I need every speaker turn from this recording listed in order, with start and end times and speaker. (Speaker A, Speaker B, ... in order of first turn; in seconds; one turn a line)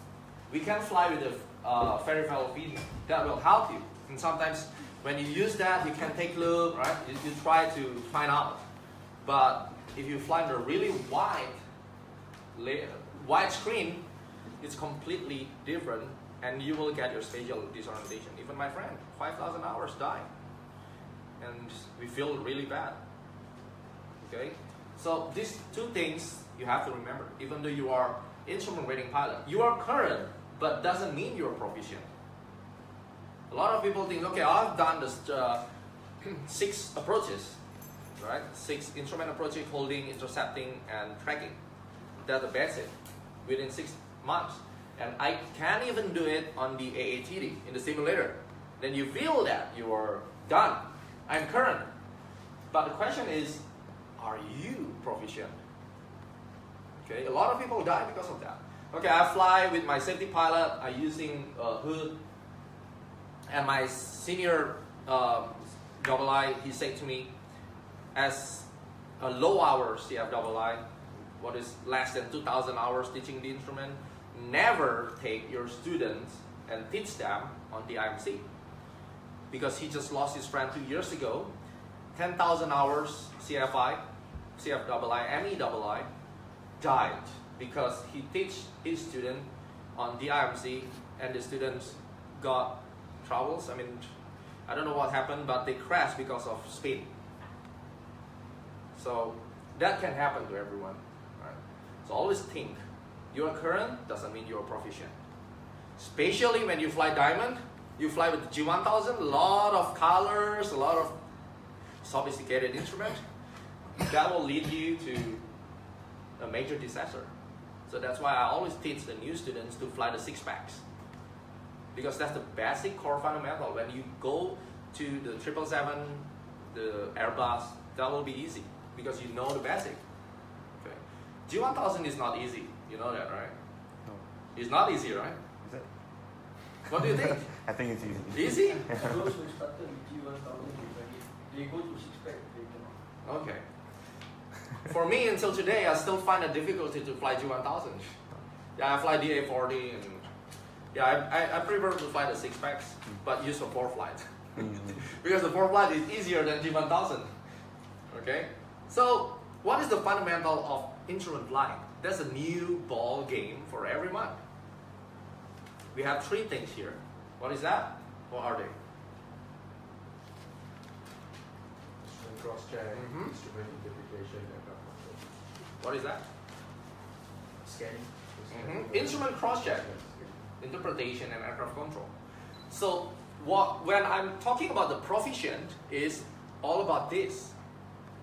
Speaker A: 0.5-8.6
Speaker A: 9.2-11.6
Speaker A: 12.5-14.1
Speaker A: 14.6-20.3
Speaker A: 21.4-23.0
Speaker A: 24.2-32.1
Speaker A: 33.5-35.6
Speaker A: 36.2-37.6
Speaker A: 38.2-41.6
Speaker A: 42.2-42.9
Speaker A: 43.4-51.9
Speaker A: 52.7-53.6
Speaker A: 54.2-55.5
Speaker A: 57.0-62.2
Speaker A: 63.5-67.3
Speaker A: 68.1-68.7
Speaker A: 69.2-70.8
Speaker A: 71.4-78.5
Speaker A: 79.5-81.5
Speaker A: 82.1-84.0
Speaker A: 84.6-86.1
Speaker A: 86.8-94.1
Speaker A: 94.7-97.1
Speaker A: 98.9-105.1
Speaker A: 106.0-111.2
Speaker A: 112.0-113.2
Speaker A: 114.0-115.4
Speaker A: 116.4-117.3
Speaker A: 117.9-120.8
Speaker A: 121.9-130.0
Speaker A: 130.8-133.6
Speaker B: 134.0-134.3
Speaker A: 134.5-135.4
Speaker B: 135.6-135.9
Speaker A: 136.9-137.5
Speaker B: 137.0-139.2
Speaker A: 138.3-138.9
Speaker C: 138.8-142.9
Speaker A: 143.2-143.6
Speaker A: 144.8-148.1
Speaker A: 148.8-150.3
Speaker A: 150.9-157.3
Speaker B: 154.6-155.0
Speaker A: 158.1-164.4
Speaker A: 165.9-168.7
Speaker D: 172.0-175.3
Speaker A: 172.9-173.3
Speaker A: 175.8-176.2
Speaker D: 177.6-180.5
Speaker A: 178.5-179.9
Speaker A: 180.6-182.1
Speaker A: 182.7-187.5